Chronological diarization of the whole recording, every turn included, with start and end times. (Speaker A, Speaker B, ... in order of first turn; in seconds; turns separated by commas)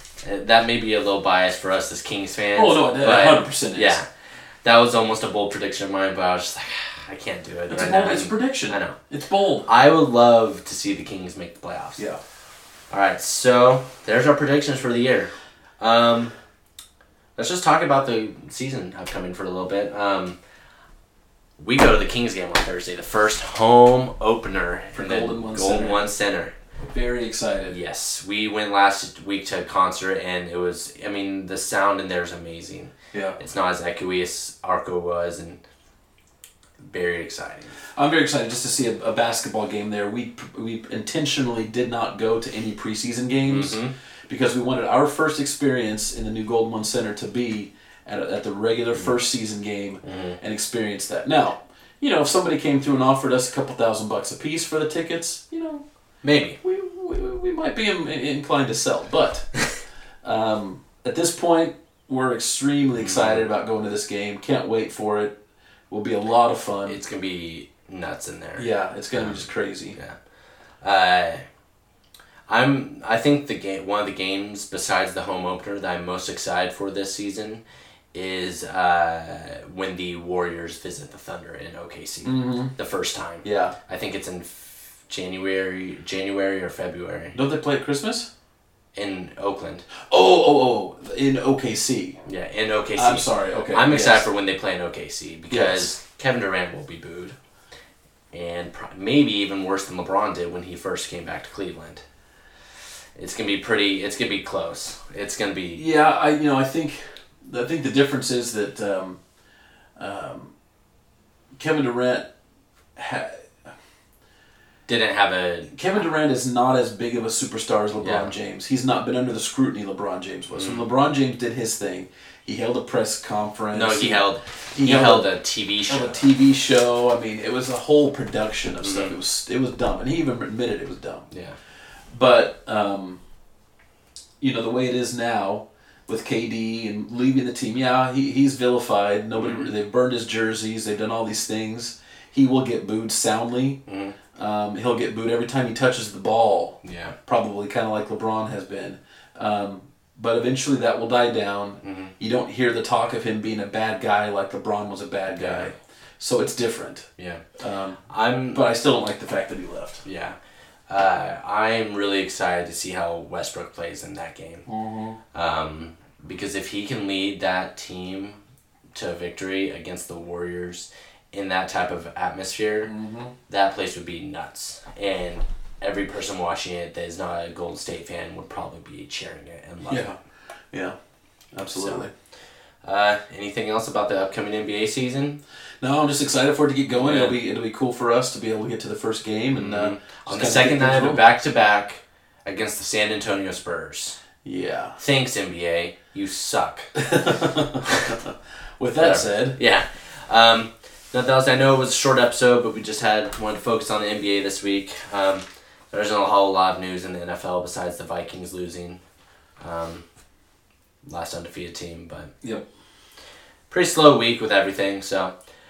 Speaker A: 0.2-4.1, Speaker B: 2.5-4.0, Speaker A: 4.6-8.9, Speaker B: 7.7-9.7, Speaker A: 9.7-12.0, Speaker A: 12.9-16.3, Speaker A: 17.4-20.4, Speaker A: 21.6-26.5, Speaker B: 24.9-26.1, Speaker B: 26.9-27.8, Speaker A: 27.7-35.6, Speaker B: 33.1-33.4, Speaker A: 36.9-37.7, Speaker B: 38.0-55.8, Speaker A: 43.4-43.9, Speaker A: 50.0-50.4, Speaker A: 56.2-56.6, Speaker B: 56.6-59.5, Speaker B: 60.2-65.3, Speaker A: 63.0-63.4, Speaker B: 65.9-67.0, Speaker A: 66.9-70.2, Speaker B: 68.6-70.0, Speaker A: 70.8-71.4, Speaker A: 72.5-77.6, Speaker A: 78.1-87.4, Speaker B: 82.2-82.7, Speaker B: 83.4-83.8, Speaker B: 87.3-88.3, Speaker A: 88.9-89.8, Speaker B: 90.1-92.2, Speaker A: 92.2-97.3, Speaker B: 93.0-94.3, Speaker B: 95.5-95.9, Speaker A: 98.3-102.0, Speaker A: 103.2-105.8, Speaker B: 105.8-109.2, Speaker B: 110.0-110.5, Speaker B: 111.6-112.3, Speaker B: 113.0-113.7, Speaker A: 114.9-115.7, Speaker B: 115.7-124.2, Speaker A: 118.0-118.3, Speaker A: 120.5-120.8, Speaker A: 123.7-126.2, Speaker B: 124.7-125.3, Speaker B: 125.9-131.2, Speaker A: 128.8-129.1, Speaker B: 132.1-133.2, Speaker B: 134.4-143.8, Speaker A: 139.4-139.7, Speaker A: 143.9-144.2, Speaker B: 144.3-157.1, Speaker A: 146.8-147.1, Speaker A: 151.8-152.1, Speaker A: 155.3-155.7, Speaker A: 157.2-157.4, Speaker B: 157.6-158.0, Speaker A: 158.1-158.7, Speaker B: 158.5-160.0, Speaker A: 160.0-160.3, Speaker A: 160.9-164.7, Speaker B: 164.7-165.2, Speaker A: 165.3-168.4, Speaker A: 168.9-172.9, Speaker B: 172.8-173.3, Speaker A: 173.5-180.1, Speaker B: 179.8-180.2, Speaker B: 180.7-180.9, Speaker B: 181.5-182.1, Speaker A: 181.7-182.0, Speaker A: 182.8-185.4, Speaker B: 185.8-191.2, Speaker A: 186.9-187.4, Speaker A: 189.5-194.2, Speaker B: 194.4-195.0, Speaker A: 195.0-196.9, Speaker B: 196.9-199.6, Speaker A: 197.8-198.2, Speaker A: 199.0-209.0, Speaker A: 209.6-210.0, Speaker A: 211.1-212.3, Speaker A: 213.7-215.3